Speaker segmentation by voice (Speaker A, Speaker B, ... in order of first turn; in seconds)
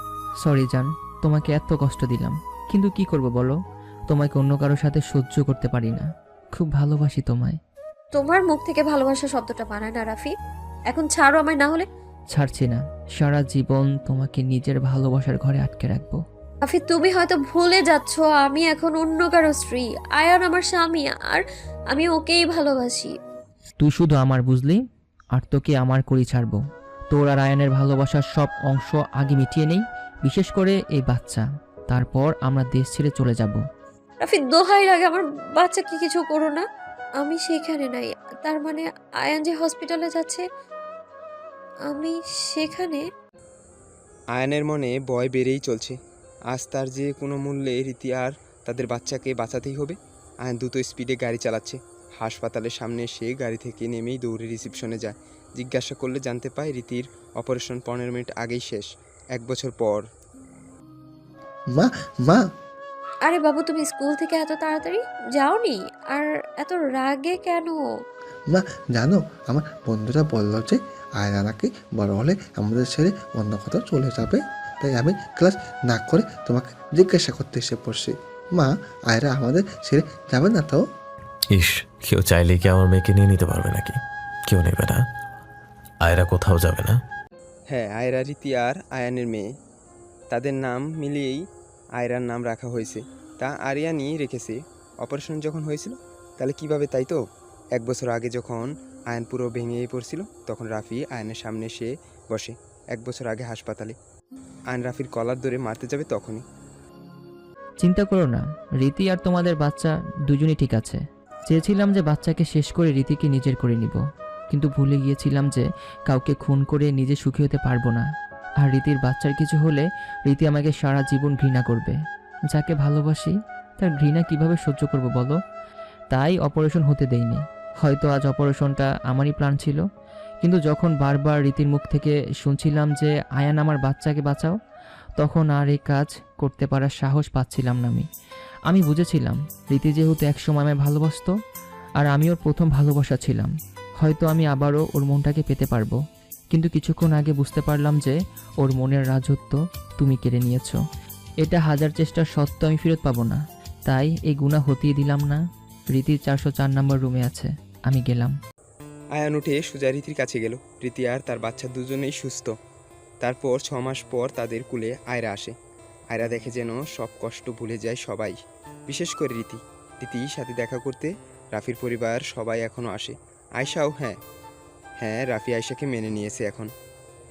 Speaker A: 0.4-3.5, 4.1-7.6, 12.3-16.2, 23.8-24.8, 25.4-26.6, 27.1-33.6, 107.8-118.0, 118.6-122.0, 122.5-125.4, 126.1-129.8, 130.4-134.6, 135.2-138.1, 138.7-141.3, 142.0-146.0, 146.5-150.8, 151.4-155.4, 155.9-158.3
Speaker B: 8.2-10.3, 10.9-11.9, 16.7-23.1, 34.2-36.6, 37.2-40.5, 41.9-43.0, 63.2-67.8
Speaker C: 44.4-46.0, 46.5-60.0, 87.7-89.5, 90.3-91.5, 92.0-97.2, 97.8-104.0, 104.7-106.4, 159.2-162.5, 163.2-165.6, 166.1-168.4, 168.9-174.2, 175.0-176.7
Speaker D: 61.7-62.5, 68.5-80.8
Speaker E: 81.5-85.0, 86.0-87.0